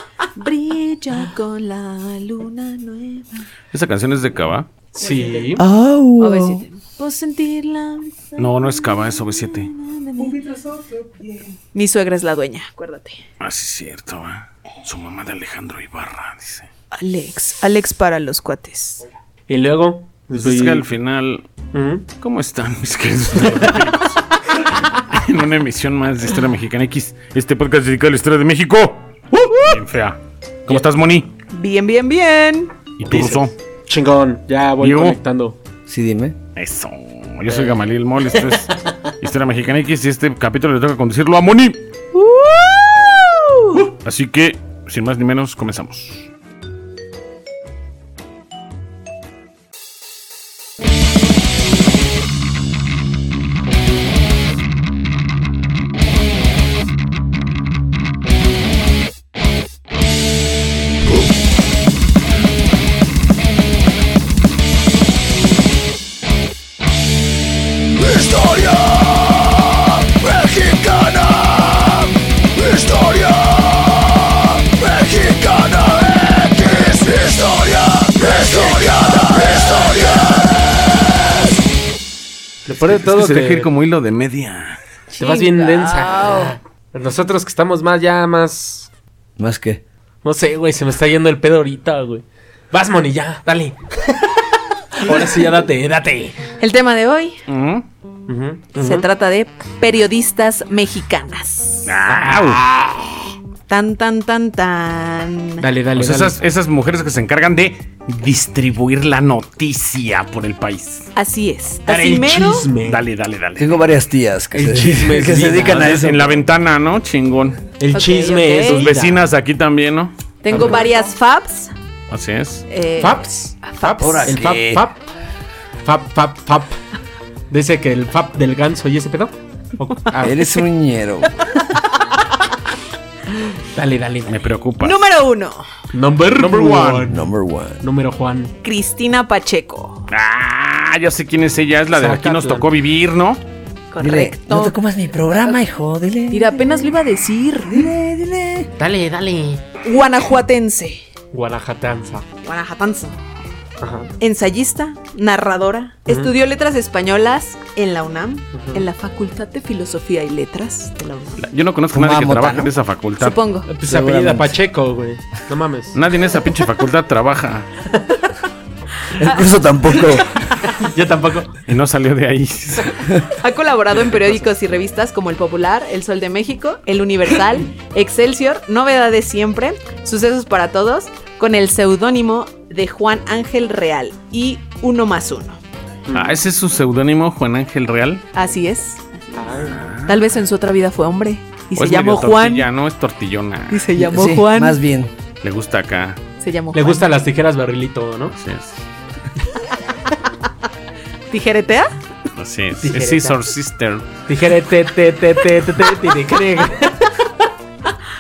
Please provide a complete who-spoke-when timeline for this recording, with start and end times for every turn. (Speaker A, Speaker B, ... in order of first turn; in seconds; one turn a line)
Speaker A: 0.4-3.5
Speaker B: 3.7-4.8
Speaker A: 4.9-5.6
Speaker C: 5.0-5.6
Speaker D: 5.6-6.6
Speaker A: 6.2-10.6
Speaker B: 8.4-9.7
Speaker A: 11.7-13.2
Speaker B: 13.4-16.7
Speaker A: 16.9-19.0
Speaker C: 19.5-20.9
Speaker B: 20.3-21.5
Speaker C: 21.7-22.1
Speaker B: 22.2-24.2
Speaker B: 24.8-31.3
Speaker C: 29.4-29.7
Speaker A: 31.5-32.7
Speaker B: 33.0-33.5
Speaker C: 33.1-35.5
Speaker B: 34.8-35.2
Speaker D: 35.9-36.4
Speaker B: 36.5-41.8
Speaker A: 42.1-43.8
Speaker B: 43.7-46.3
Speaker E: 68.1-71.9
Speaker E: 72.6-73.8
Speaker E: 74.6-80.3
Speaker C: 82.7-83.7
Speaker B: 82.8-84.8
Speaker C: 85.2-88.9
Speaker A: 85.2-86.6
Speaker D: 89.4-89.8
Speaker C: 90.2-94.4
Speaker C: 94.9-96.4
Speaker A: 96.6-97.4
Speaker B: 97.5-97.8
Speaker C: 98.3-99.0
Speaker A: 98.8-101.9
Speaker B: 101.8-102.7
Speaker C: 102.1-103.3
Speaker A: 103.7-105.6
Speaker C: 105.6-106.4
Speaker B: 105.9-111.1
Speaker A: 111.1-112.7
Speaker C: 111.9-113.0
Speaker B: 112.8-113.8
Speaker D: 113.6-116.4
Speaker C: 114.5-116.1
Speaker B: 115.7-117.6
Speaker C: 117.8-119.3
Speaker A: 117.9-119.0
Speaker B: 118.6-120.1
Speaker A: 120.4-121.7
Speaker C: 120.5-120.9
Speaker B: 122.1-122.7
Speaker A: 122.7-124.4
Speaker C: 123.0-125.0
Speaker D: 124.0-124.8
Speaker C: 125.8-126.8
Speaker C: 127.5-130.5
Speaker D: 130.2-131.3
Speaker C: 133.7-134.5
Speaker B: 134.3-135.1
Speaker A: 134.8-135.7
Speaker C: 135.9-137.3
Speaker B: 136.3-137.1
Speaker D: 137.1-137.8
Speaker C: 137.8-138.5
Speaker A: 138.6-140.0
Speaker B: 140.1-143.4
Speaker C: 141.9-142.7
Speaker A: 143.9-144.8
Speaker D: 144.0-146.9
Speaker A: 146.3-147.9
Speaker D: 147.7-148.7
Speaker C: 148.8-149.6
Speaker A: 149.8-151.0
Speaker C: 151.3-152.2
Speaker A: 152.4-153.2
Speaker C: 153.8-154.1
Speaker A: 154.2-161.5
Speaker C: 158.5-158.8
Speaker B: 161.4-163.5
Speaker D: 161.9-162.7
Speaker A: 163.2-163.7
Speaker C: 163.7-166.0
Speaker D: 163.8-164.6
Speaker B: 165.9-167.7
Speaker D: 169.2-170.3
Speaker A: 169.2-169.5
Speaker C: 170.0-171.6
Speaker B: 171.6-173.2
Speaker A: 173.3-185.6
Speaker C: 186.1-186.4
Speaker B: 186.1-188.2
Speaker A: 188.3-192.7
Speaker C: 189.3-189.8
Speaker B: 189.6-190.2
Speaker B: 191.8-193.9
Speaker A: 193.7-194.8
Speaker D: 194.0-195.1
Speaker B: 195.4-196.2
Speaker A: 196.4-197.1
Speaker C: 196.7-198.3
Speaker B: 198.3-198.8
Speaker A: 201.3-201.9
Speaker B: 202.3-204.1
Speaker C: 202.8-203.4
Speaker C: 204.3-207.1